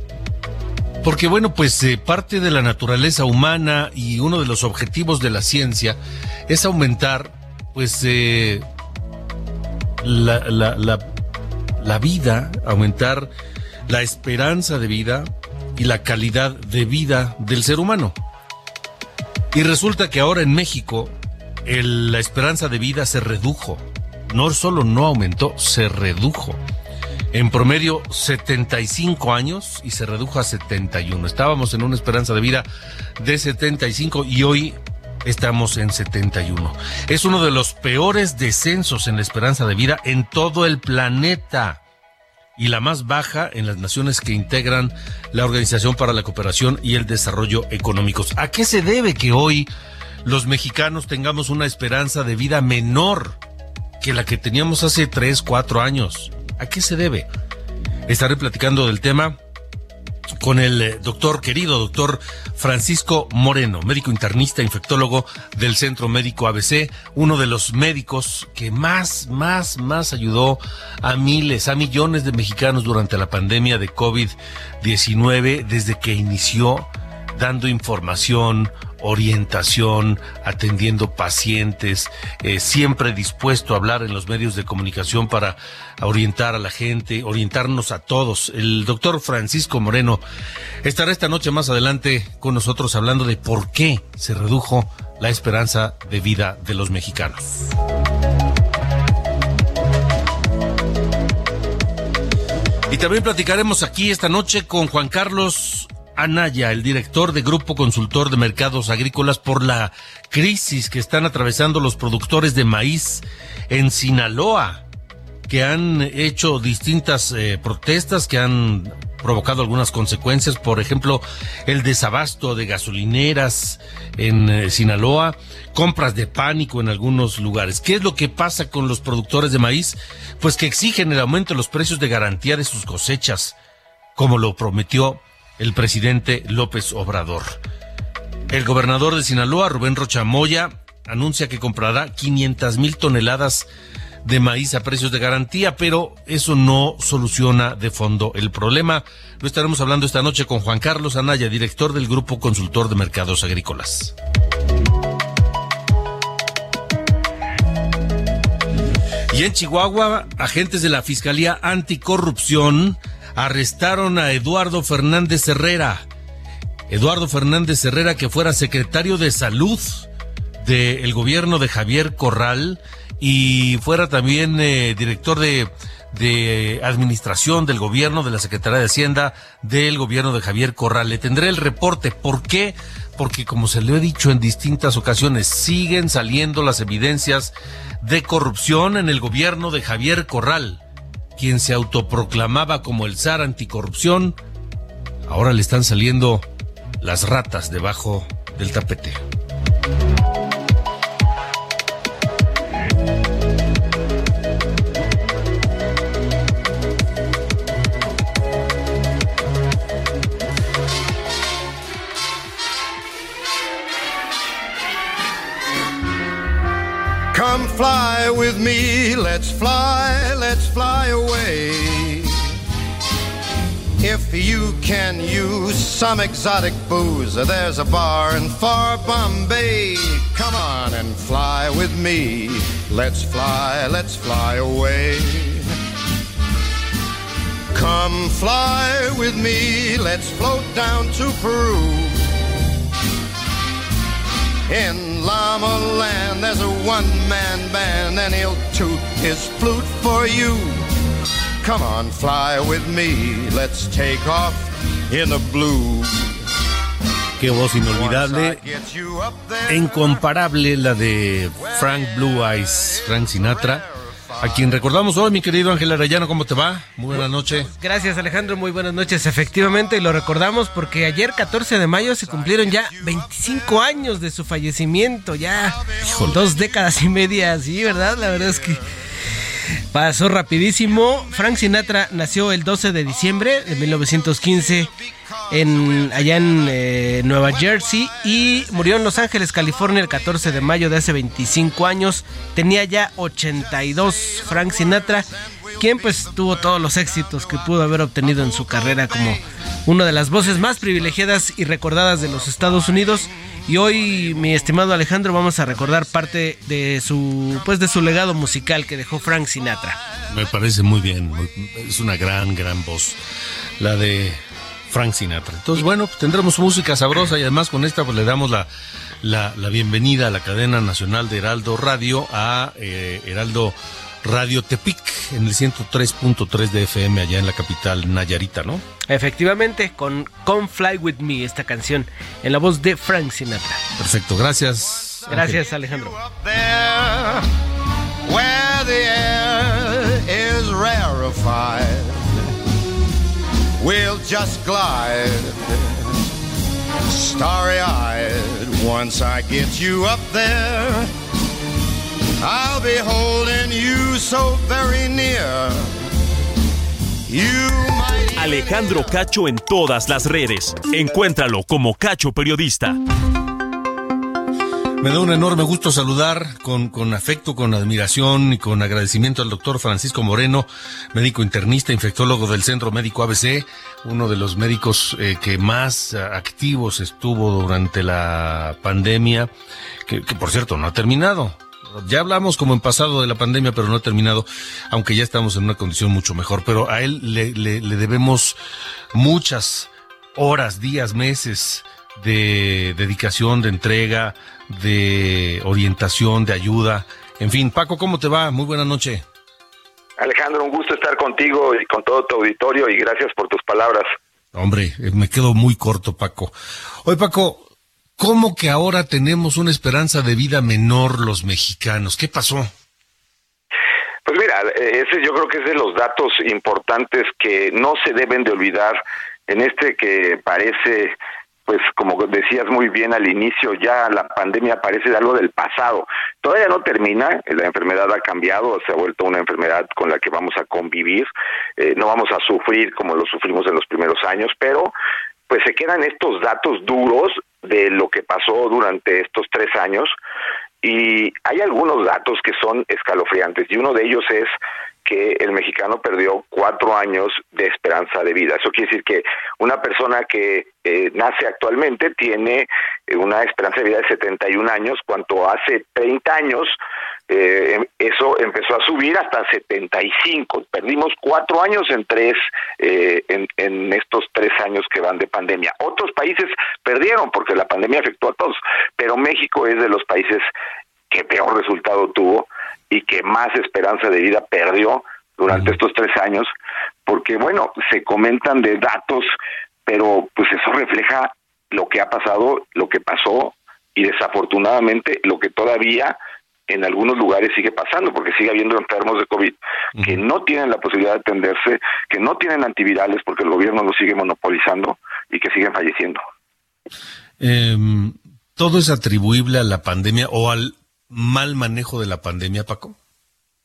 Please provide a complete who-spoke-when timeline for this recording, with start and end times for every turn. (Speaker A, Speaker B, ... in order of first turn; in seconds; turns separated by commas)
Speaker A: 1.0-8.7, Speaker A: 10.0-11.0, Speaker A: 11.8-13.3, Speaker A: 13.9-18.1, Speaker A: 19.5-26.6, Speaker A: 27.3-32.7, Speaker A: 33.2-41.8, Speaker A: 42.6-49.7, Speaker A: 50.2-53.4, Speaker A: 54.0-57.3, Speaker A: 58.1-59.4, Speaker A: 60.4-90.2, Speaker A: 90.8-97.7, Speaker A: 102.9-114.8, Speaker A: 115.5-133.6, Speaker A: 134.2-137.6, Speaker A: 138.5-143.7, Speaker A: 144.2-154.1, Speaker A: 159.3-166.1, Speaker A: 166.9-170.1, Speaker A: 170.6-190.8, Speaker A: 191.4-194.4, Speaker A: 195.2-196.5, Speaker A: 197.0-199.2, Speaker B: 217.3-222.4, Speaker B: 224.0-235.7, Speaker B: 237.7-242.3, Speaker B: 244.7-250.8, Speaker B: 251.6-256.4, Speaker A: 257.4-258.6, Speaker B: 257.7-260.2, Speaker A: 259.7-263.8, Speaker B: 261.5-264.9, Speaker A: 264.4-267.7, Speaker C: 267.1-278.8, Speaker B: 267.4-274.3, Speaker B: 275.3-278.9, Speaker C: 279.9-284.9, Speaker B: 280.8-282.1, Speaker B: 283.0-291.1, Speaker C: 285.5-295.3, Speaker B: 293.5-299.4, Speaker C: 295.8-310.0, Speaker B: 300.2-301.2, Speaker B: 302.1-306.6, Speaker A: 310.3-313.2, Speaker A: 313.8-314.4, Speaker A: 314.9-318.7, Speaker A: 319.2-328.8, Speaker C: 329.1-333.8, Speaker A: 334.0-335.6, Speaker B: 334.8-337.4, Speaker C: 335.3-336.1, Speaker B: 338.2-342.3, Speaker B: 343.8-346.3, Speaker B: 347.1-351.1, Speaker B: 352.4-355.9, Speaker B: 357.3-359.2, Speaker D: 358.4-363.0, Speaker A: 365.0-379.5, Speaker A: 380.1-388.6, Speaker A: 389.1-399.2, Speaker E: 400.2-404.1, Speaker A: 404.5-406.5, Speaker A: 407.0-407.6, Speaker A: 408.2-412.7, Speaker E: 414.2-421.1, Speaker E: 421.7-434.9, Speaker E: 435.5-440.1, Speaker E: 440.8-444.5, Speaker E: 445.0-456.8, Speaker E: 457.3-470.5, Speaker E: 471.1-476.5, Speaker E: 477.1-479.3, Speaker E: 479.9-486.2, Speaker E: 486.7-496.2, Speaker A: 497.4-503.0